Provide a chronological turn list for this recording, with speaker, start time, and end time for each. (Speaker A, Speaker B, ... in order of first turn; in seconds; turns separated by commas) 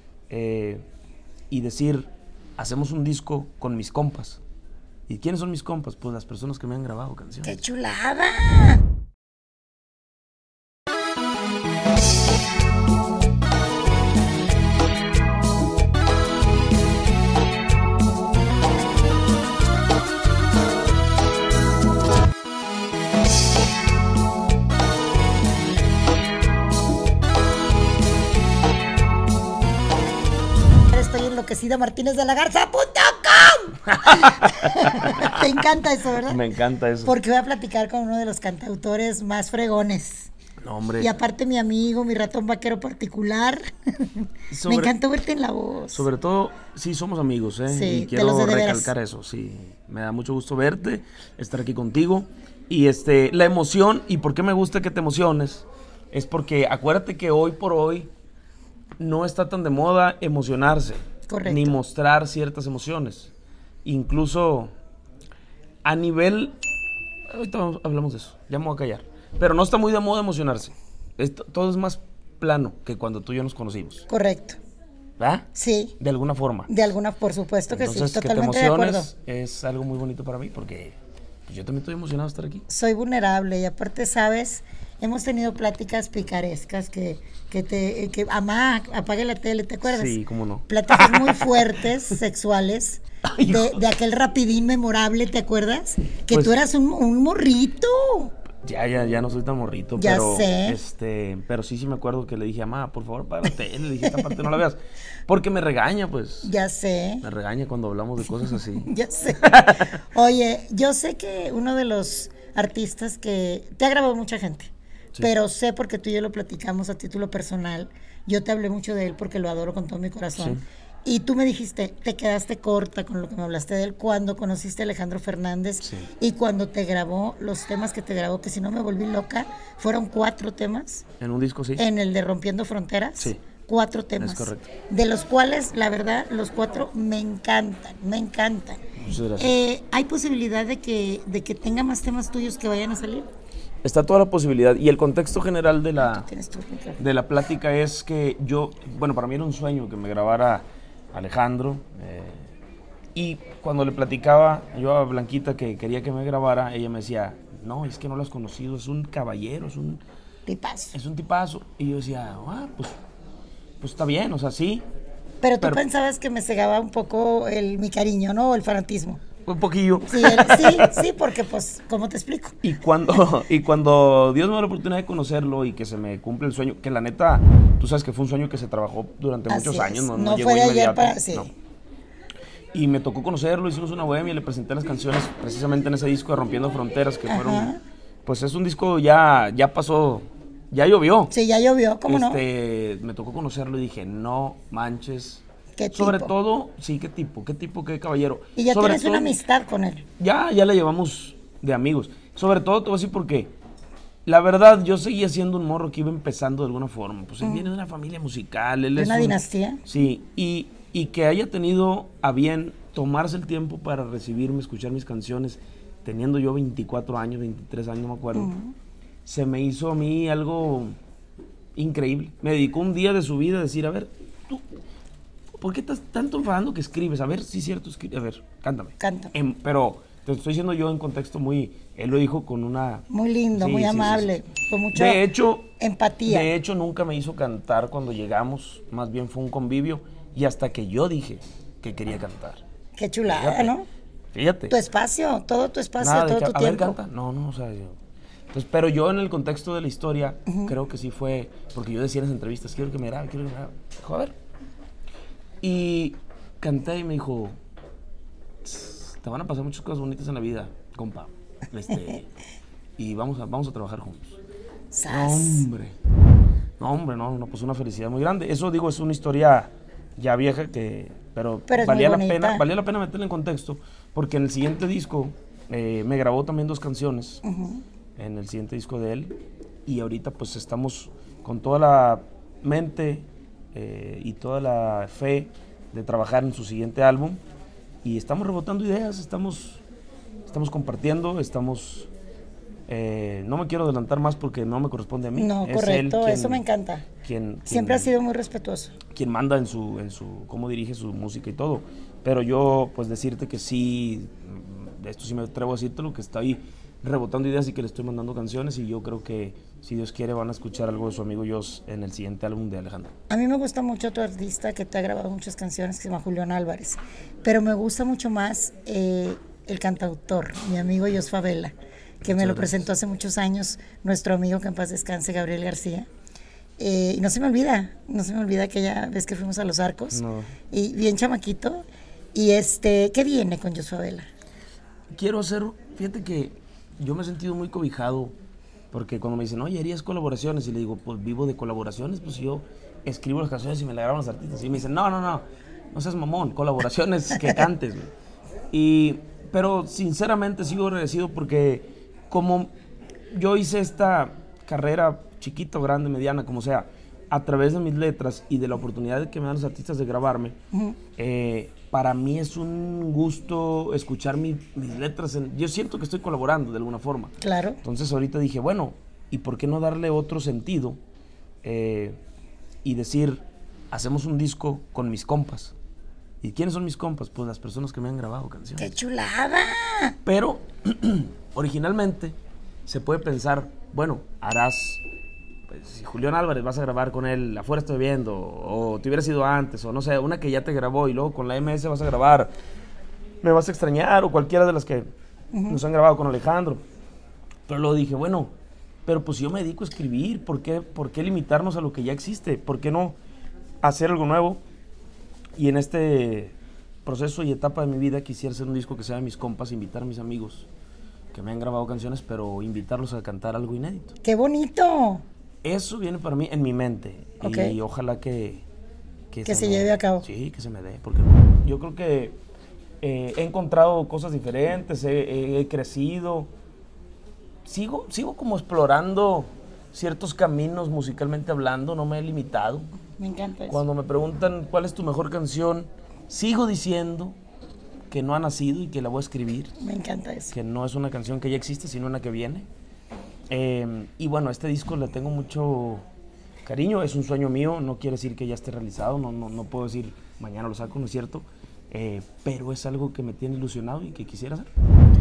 Speaker A: 0.3-0.9, Speaker A: 1.5-4.4, Speaker A: 5.1-7.6, Speaker B: 7.5-8.8, Speaker B: 30.9-36.4, Speaker A: 33.9-35.4, Speaker A: 36.2-37.2, Speaker B: 37.0-40.3, Speaker A: 40.6-41.1, Speaker B: 41.0-46.1, Speaker A: 44.5-44.9, Speaker A: 45.9-58.1, Speaker B: 47.7-48.9, Speaker A: 59.0-63.3, Speaker B: 61.3-61.8, Speaker A: 63.9-64.7, Speaker A: 65.8-66.6, Speaker A: 67.3-74.1, Speaker B: 74.1-74.6, Speaker A: 75.2-76.7, Speaker B: 75.5-76.0, Speaker B: 76.7-79.1, Speaker A: 77.7-82.7, Speaker B: 82.7-90.2, Speaker A: 89.8-91.6, Speaker B: 90.7-98.3, Speaker A: 93.2-93.8, Speaker A: 96.3-96.6, Speaker A: 98.6-106.5, Speaker B: 100.0-100.8, Speaker B: 106.5-107.2, Speaker A: 107.2-110.0, Speaker B: 108.5-131.1, Speaker A: 120.4-120.6, Speaker A: 125.8-126.1, Speaker A: 131.2-131.8, Speaker B: 131.8-138.8, Speaker A: 134.2-134.7, Speaker A: 139.0-139.6, Speaker B: 139.4-143.3, Speaker A: 143.8-146.3, Speaker B: 146.0-147.0, Speaker A: 147.0-152.5, Speaker A: 153.2-160.0, Speaker B: 160.5-160.9, Speaker A: 160.9-163.0, Speaker A: 163.8-164.8, Speaker B: 165.4-169.2, Speaker A: 169.4-171.0, Speaker B: 170.1-172.6, Speaker A: 172.6-181.5, Speaker B: 179.5-181.5, Speaker A: 182.7-187.7, Speaker B: 187.3-187.8, Speaker A: 188.2-191.3, Speaker B: 191.3-192.4, Speaker A: 192.1-199.4, Speaker B: 195.8-196.3, Speaker B: 198.6-200.1, Speaker A: 200.2-203.5, Speaker A: 204.3-218.5, Speaker B: 207.4-207.7, Speaker B: 209.0-209.8, Speaker B: 218.3-218.8, Speaker A: 219.2-221.0, Speaker A: 221.8-224.7, Speaker A: 225.6-234.3, Speaker B: 229.0-229.3, Speaker B: 233.1-235.2, Speaker A: 234.9-235.7, Speaker B: 235.8-236.5, Speaker A: 236.3-242.6, Speaker B: 243.0-243.9, Speaker A: 243.3-243.7, Speaker A: 244.3-244.8, Speaker B: 244.7-247.0, Speaker A: 246.0-248.0, Speaker A: 248.5-254.3, Speaker B: 250.5-250.7, Speaker A: 255.6-257.6, Speaker A: 258.6-262.3, Speaker A: 263.0-264.4, Speaker B: 264.9-265.7, Speaker A: 265.1-266.0, Speaker A: 266.8-277.4, Speaker B: 271.7-272.6, Speaker B: 277.4-277.8, Speaker A: 278.2-287.4, Speaker A: 288.0-289.8, Speaker A: 290.5-292.1, Speaker A: 292.9-296.6, Speaker B: 295.4-297.1, Speaker A: 297.2-298.1, Speaker B: 297.7-299.0, Speaker A: 299.1-313.1, Speaker B: 313.3-326.1, Speaker A: 322.2-322.8, Speaker B: 326.8-334.3, Speaker A: 330.1-330.6, Speaker A: 335.1-338.4, Speaker A: 338.9-348.1, Speaker A: 348.7-352.7, Speaker A: 353.3-360.6, Speaker A: 361.2-371.0, Speaker B: 367.4-367.8, Speaker A: 371.6-372.2, Speaker A: 372.8-375.8, Speaker A: 376.4-378.9, Speaker B: 378.8-380.2, Speaker A: 380.2-385.0, Speaker A: 385.7-392.5, Speaker A: 393.4-395.1, Speaker B: 395.5-395.8, Speaker A: 395.7-396.8, Speaker A: 397.7-398.5, Speaker A: 399.1-403.2, Speaker A: 403.8-404.6, Speaker A: 405.6-410.7, Speaker A: 411.3-414.1, Speaker B: 414.2-415.2, Speaker A: 415.6-418.7, Speaker B: 417.4-417.8, Speaker A: 419.3-422.4, Speaker B: 419.5-420.3, Speaker A: 423.0-426.5, Speaker A: 427.6-432.9, Speaker B: 433.2-433.8, Speaker A: 433.7-437.4, Speaker A: 438.1-439.7, Speaker B: 439.8-440.5, Speaker A: 440.5-442.7, Speaker A: 443.5-446.1, Speaker A: 446.6-454.7